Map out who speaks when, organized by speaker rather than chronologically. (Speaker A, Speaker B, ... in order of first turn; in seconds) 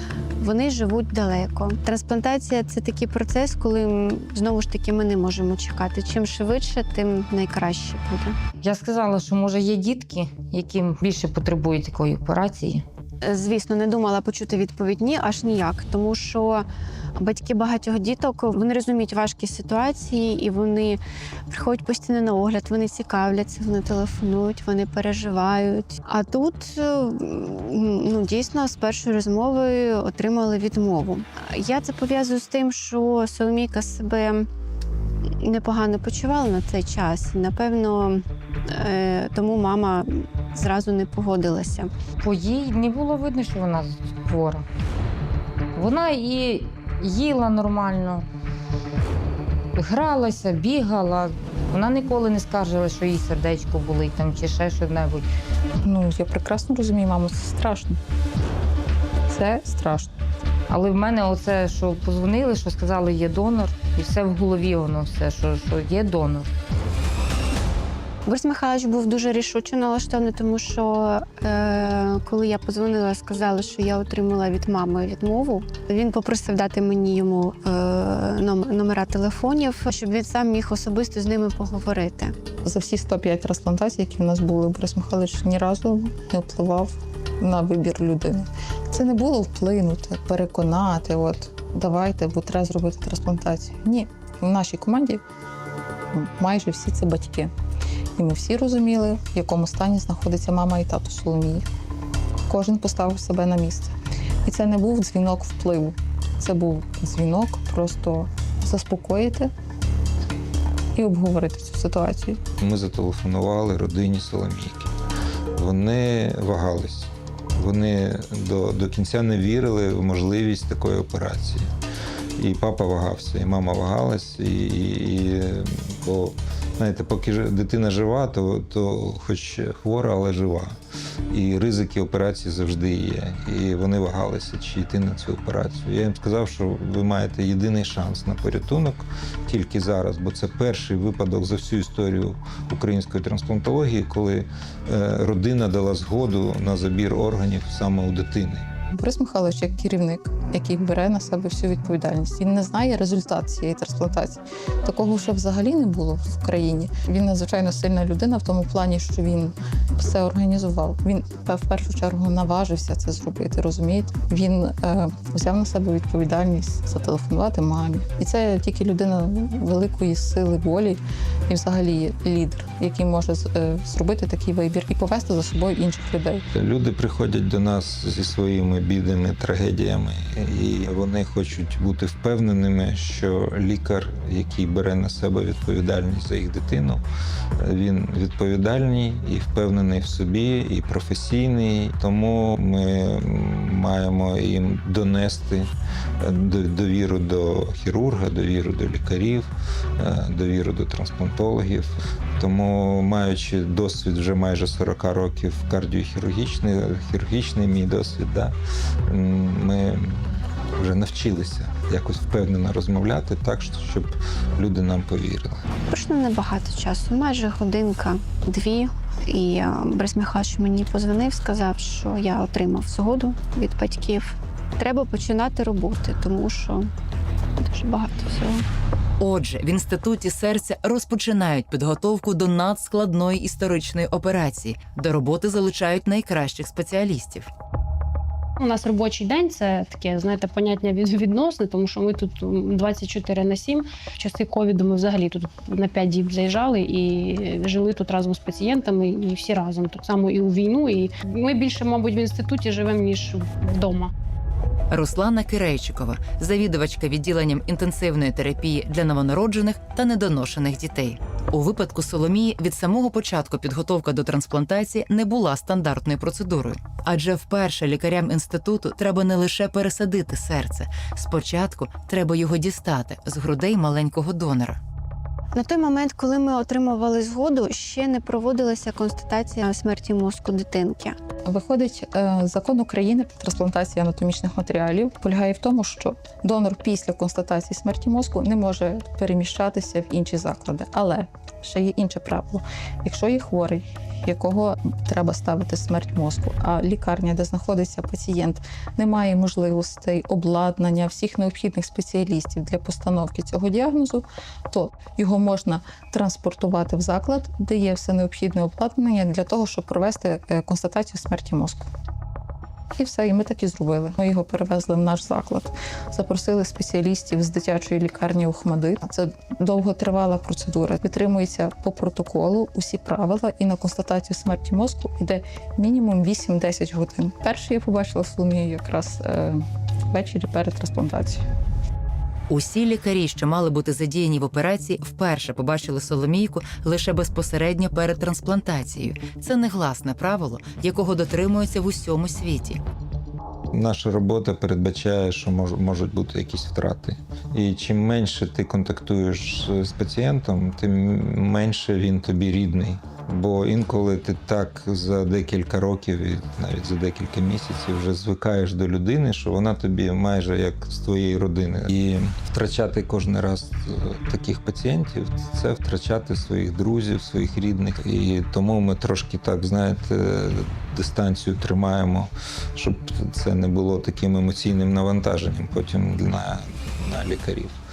Speaker A: 0.4-8.4, 13.2-16.7, 17.2-34.5, 35.4-41.9, 68.3-82.3, 215.9-226.9, 227.6-228.7, 275.6-281.2
Speaker B: 8.6-12.8, 42.2-44.7, 45.8-48.2, 49.8-55.3, 60.7-66.5
Speaker C: 55.8-58.0, 59.3-60.1, 82.7-95.2, 96.1-97.5, 98.2-101.7, 102.5-103.9, 104.5-109.5, 111.0-112.4, 148.9-176.4, 281.5-311.9, 313.0-331.4
Speaker D: 112.6-114.9, 115.5-121.7, 122.4-130.8, 131.3-148.7, 176.5-187.0, 187.6-208.6, 209.1-215.6, 343.7-377.8
Speaker E: 229.2-237.5, 254.9-274.8, 332.5-342.8
Speaker F: 238.6-254.1